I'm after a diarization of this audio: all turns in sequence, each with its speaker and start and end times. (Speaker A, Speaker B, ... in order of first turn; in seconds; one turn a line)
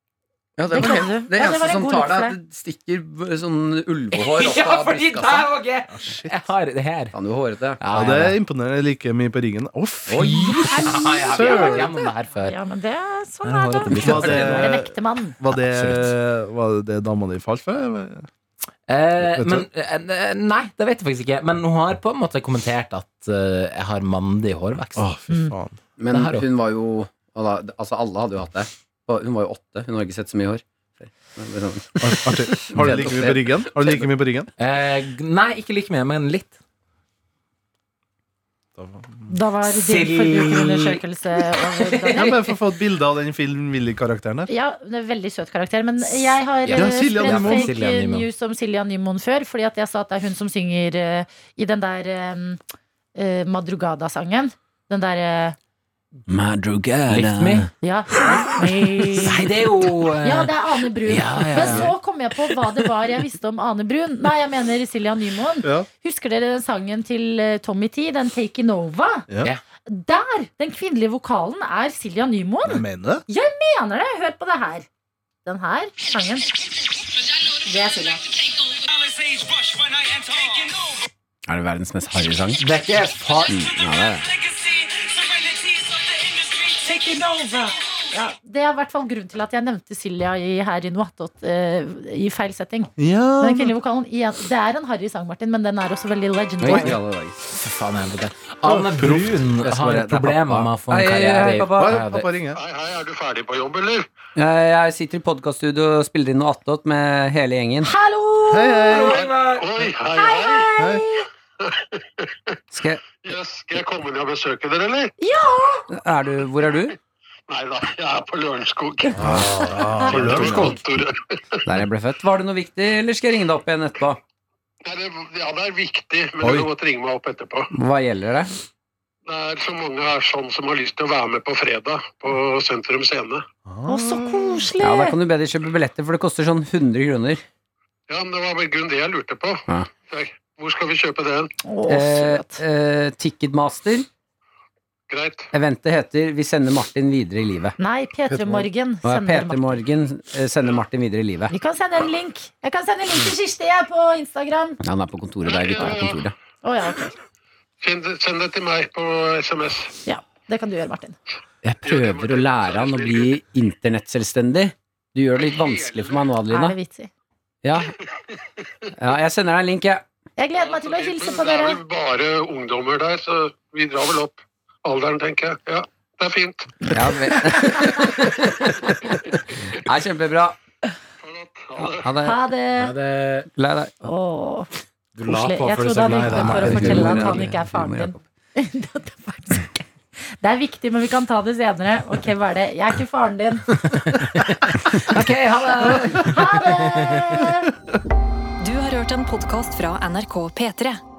Speaker A: 0.6-5.5
Speaker B: 0.7-2.4
Speaker C: 4.1-7.2
Speaker D: 5.9-6.5
Speaker A: 7.1-7.8
Speaker C: 7.8-8.4
Speaker D: 7.9-11.9
Speaker A: 10.1-10.4
Speaker C: 10.2-12.6
Speaker B: 10.5-15.4
Speaker C: 13.4-14.7
Speaker D: 13.9-18.3
Speaker A: 13.9-14.3
Speaker A: 15.5-16.1
Speaker C: 18.9-25.1
Speaker D: 19.2-19.6
Speaker D: 24.9-25.8
Speaker B: 25.3-25.5
Speaker A: 26.0-34.1
Speaker C: 26.1-26.5
Speaker D: 32.0-34.5
Speaker C: 34.6-36.6
Speaker D: 38.8-39.3
Speaker B: 39.3-42.4
Speaker C: 39.7-42.4
Speaker D: 42.1-44.5
Speaker B: 44.5-52.6
Speaker D: 46.7-47.7
Speaker A: 47.2-47.5
Speaker C: 47.5-48.3
Speaker B: 53.1-55.5
Speaker A: 56.3-57.7
Speaker C: 57.1-57.7
Speaker B: 57.8-59.5
Speaker C: 59.1-61.8
Speaker B: 60.2-69.3
Speaker A: 61.5-61.9
Speaker D: 65.6-65.9
Speaker B: 69.8-74.9
Speaker D: 72.6-73.2
Speaker B: 75.4-76.5
Speaker B: 77.6-78.2
Speaker A: 81.5-82.6
Speaker C: 82.6-83.5
Speaker A: 83.5-84.4
Speaker B: 86.7-97.0
Speaker D: 93.0-93.8
Speaker A: 96.6-97.4
Speaker C: 97.5-102.3
Speaker D: 98.6-99.5
Speaker A: 99.6-102.0
Speaker D: 101.7-102.6
Speaker E: 102.5-104.1
Speaker A: 104.3-107.9
Speaker B: 107.8-109.2
Speaker D: 108.5-109.2
Speaker C: 108.9-109.9
Speaker E: 109.1-110.7
Speaker B: 110.1-111.2
Speaker D: 110.8-111.0
Speaker E: 111.6-112.2
Speaker A: 112.7-113.1
Speaker E: 113.2-115.1
Speaker B: 115.2-115.8
Speaker A: 115.9-117.0
Speaker E: 117.5-119.1
Speaker B: 119.1-120.8
Speaker D: 119.1-120.8
Speaker E: 120.0-121.2
Speaker A: 121.7-124.2
Speaker E: 124.8-127.7
Speaker D: 126.4-126.7
Speaker A: 127.7-128.5
Speaker E: 129.2-133.4
Speaker D: 133.7-134.7
Speaker B: 133.8-135.2
Speaker A: 134.8-137.4
Speaker E: 138.1-141.5
Speaker B: 141.6-142.6
Speaker A: 141.8-144.1
Speaker E: 145.1-145.5
Speaker A: 145.5-147.8
Speaker B: 147.8-149.8
Speaker A: 148.3-151.5
Speaker B: 151.5-154.8
Speaker A: 154.8-156.3
Speaker E: 155.7-156.2
Speaker B: 156.6-157.2
Speaker E: 157.8-159.9
Speaker B: 160.1-161.2
Speaker A: 161.6-166.8
Speaker E: 161.8-163.3
Speaker E: 165.5-166.2
Speaker B: 166.5-167.1
Speaker A: 167.6-167.9
Speaker A: 169.0-170.0
Speaker B: 170.4-171.8
Speaker E: 170.6-176.7
Speaker A: 176.9-180.6
Speaker E: 181.2-182.1
Speaker A: 181.8-182.4
Speaker B: 182.2-182.9
Speaker C: 182.8-183.5
Speaker A: 183.5-183.9
Speaker B: 184.0-184.7
Speaker C: 185.2-187.5
Speaker B: 185.2-189.9
Speaker A: 186.2-188.2
Speaker B: 190.4-193.8
Speaker C: 194.4-197.2
Speaker B: 195.7-197.7
Speaker E: 198.7-200.4
Speaker F: 198.8-200.9